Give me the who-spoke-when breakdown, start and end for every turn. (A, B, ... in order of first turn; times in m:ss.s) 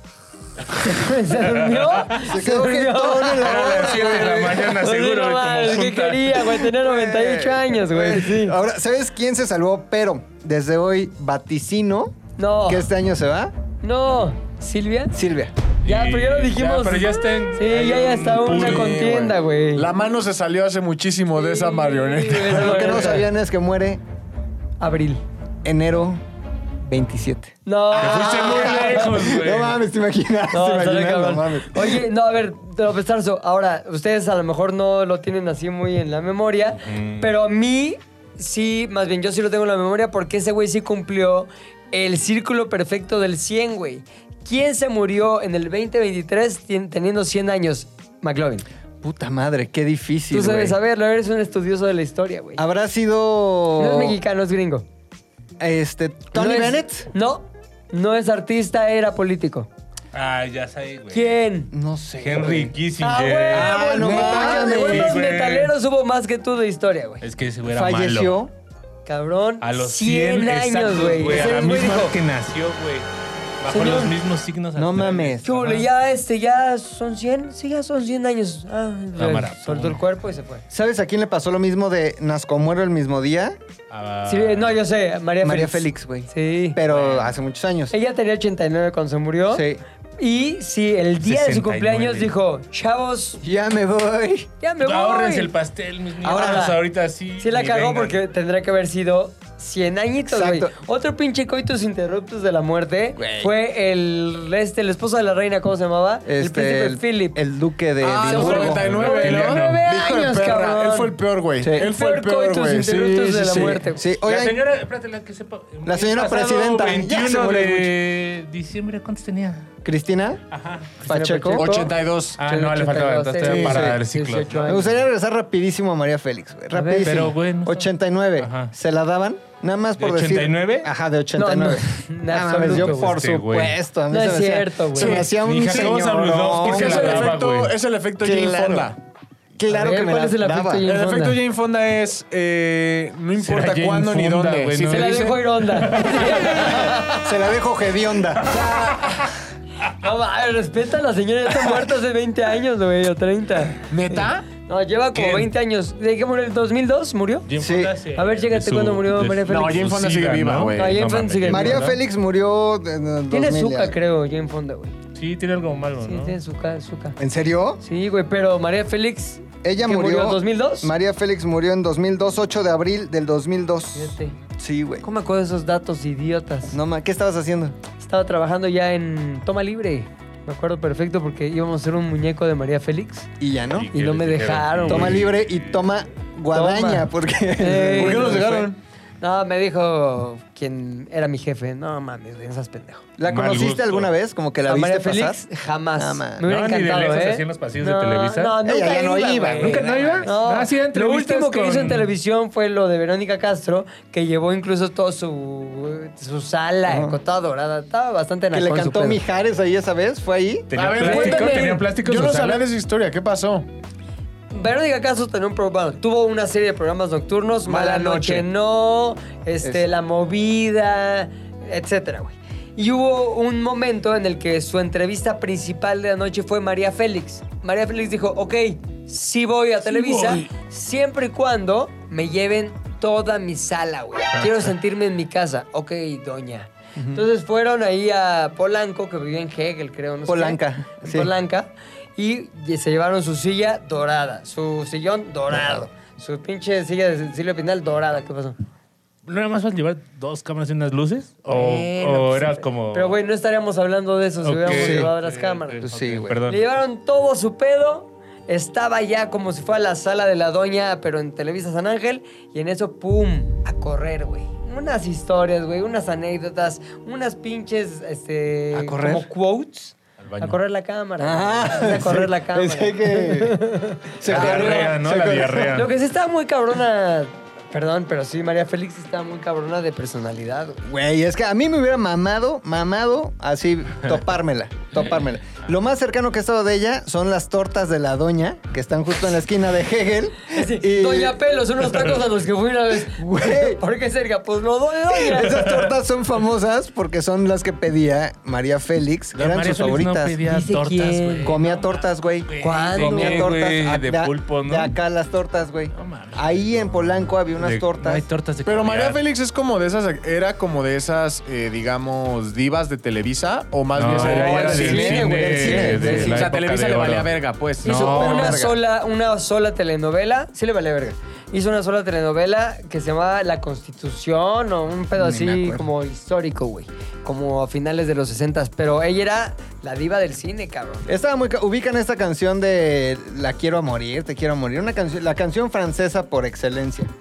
0:00.7-0:08.5 A
0:01.4-0:02.0 B
0:02.1-0:04.7 C
0:03.4-0:06.6 B
0:06.8-0:13.5 C
0:12.4-0:12.9 A
0:13.8-0:15.2 A
0:15.1-0:15.5 C
0:15.8-0:19.3 B
0:15.8-0:19.9 A
0:18.5-0:23.1 D
0:21.4-0:23.3 A
0:22.5-0:24.0 C
0:24.8-0:25.2 A
0:25.6-0:26.2 C
0:26.8-0:32.0 C
0:27.6-0:29.1 A
0:27.9-0:29.8 B
0:30.5-0:48.6 A
0:36.8-0:37.3 B
0:49.0-0:50.8 C
0:50.3-0:52.6 A
0:52.6-0:54.2 C
0:53.8-0:54.8 A
0:55.6-0:57.0 C
0:56.3-0:59.7 A
1:00.1-1:01.3 B
1:01.1-1:01.7 A
1:01.7-1:02.8 C
1:02.2-1:05.7 B
1:03.0-1:07.2 A
1:03.5-1:05.2 C
1:04.0-1:04.4 D
1:07.2-1:08.4 B
1:07.7-1:08.5 C
1:09.0-1:12.1 A
1:09.6-1:13.1 B
1:13.6-1:15.8 B
1:13.7-1:14.1 A
1:14.8-1:15.8 C
1:15.4-1:20.6 A
1:19.2-1:20.0 B
1:20.7-1:23.6 C
1:23.9-1:24.8 B
1:24.2-1:26.8 A
1:25.4-1:27.9 C
1:26.8-1:27.4 B
1:27.9-1:29.6 A
1:29.5-1:29.8 C
1:30.2-1:33.4 A
1:31.2-1:32.3 B
1:33.4-1:34.5 C
1:34.6-1:35.5 A
1:34.8-1:38.2 B
1:36.2-1:36.7 C
1:36.2-1:36.8 A
1:37.4-1:47.4 A
1:40.3-1:40.7 C
1:43.2-1:43.5 C
1:46.2-1:48.9 C
1:48.0-1:53.8 D
1:48.2-1:51.2 A
1:48.6-1:49.8 B
1:51.6-1:51.9 C
1:51.7-1:54.0 A
1:53.5-1:54.6 C
1:54.2-1:59.7 B
1:55.8-1:57.9 C
1:59.8-2:00.4 C
2:00.5-2:01.0 B
2:01.0-2:01.7 C
2:01.0-2:04.9 A
2:01.5-2:02.5 D
2:02.4-2:04.8 B
2:03.4-2:04.0 D
2:04.6-2:17.3 C
2:06.7-2:07.3 A
2:07.0-2:08.7 B
2:10.0-2:10.9 B
2:11.4-2:13.2 A
2:12.6-2:13.8 B
2:14.1-2:15.2 A
2:15.0-2:17.8 B
2:15.0-2:19.0 D
2:18.2-2:18.9 C
2:19.6-2:20.9 C
2:19.7-2:21.4 A
2:20.8-2:25.4 D
2:23.4-2:26.9 B
2:24.9-2:27.2 A
2:26.6-2:28.5 C
2:28.4-2:29.2 A
2:28.5-2:29.1 B
2:30.0-2:37.5 A
2:33.9-2:34.5 D
2:35.1-2:35.5 B
2:37.5-2:42.0 B
2:37.6-2:38.0 C
2:38.1-2:39.9 A
2:39.4-2:41.0 D
2:40.7-2:41.9 A
2:41.4-2:43.9 C
2:43.3-2:44.9 A
2:45.1-2:46.4 B
2:46.0-2:47.2 A
2:47.2-2:47.8 C
2:47.8-2:50.9 A
2:49.6-2:55.0 C
2:53.9-2:54.3 A
2:55.0-2:56.8 A
2:56.7-2:57.8 C
2:58.0-3:03.3 A
3:03.4-3:03.9 C
3:03.7-3:05.8 B
3:03.9-3:05.2 A
3:04.9-3:08.5 C
3:06.5-3:13.0 A
3:07.9-3:08.8 D
3:13.2-3:15.4 C
3:13.2-3:14.1 B
3:14.6-3:29.2 A
3:16.0-3:16.5 C
3:16.4-3:18.6 B
3:18.6-3:20.3 C
3:19.4-3:22.1 B
3:26.9-3:27.2 C
3:28.5-3:30.7 C
3:30.7-3:32.7 B
3:30.7-3:33.6 D
3:31.0-3:31.8 A
3:34.5-4:08.6 A
3:37.8-3:38.4 D
3:49.8-3:50.5 B
3:57.0-3:57.2 C
4:00.3-4:01.3 C
4:09.2-4:13.2 B
4:11.5-4:34.8 A
4:14.4-4:16.6 B
4:14.6-4:15.1 C
4:15.8-4:16.4 C
4:28.7-4:29.3 C
4:30.2-4:30.6 B
4:31.2-4:35.8 C
4:34.2-4:35.9 B
4:34.5-4:34.9 D
4:35.7-4:40.8 A
4:40.8-4:51.4 C
4:50.5-4:55.7 A
4:53.1-4:53.8 C
4:55.1-5:00.4 C
4:55.5-4:55.9 B
4:59.3-5:04.9 B
5:00.4-5:01.6 A
5:01.4-5:08.2 C
5:02.6-5:03.6 A
5:05.9-5:06.9 B
5:07.5-5:09.2 B
5:08.6-5:18.4 D
5:13.9-5:17.3 B
5:14.1-5:16.3 A
5:14.2-5:16.5 C
5:17.8-5:18.6 B
5:17.8-5:31.1 A
5:18.0-5:18.8 C
5:25.1-5:25.8 C
5:31.1-5:37.1 C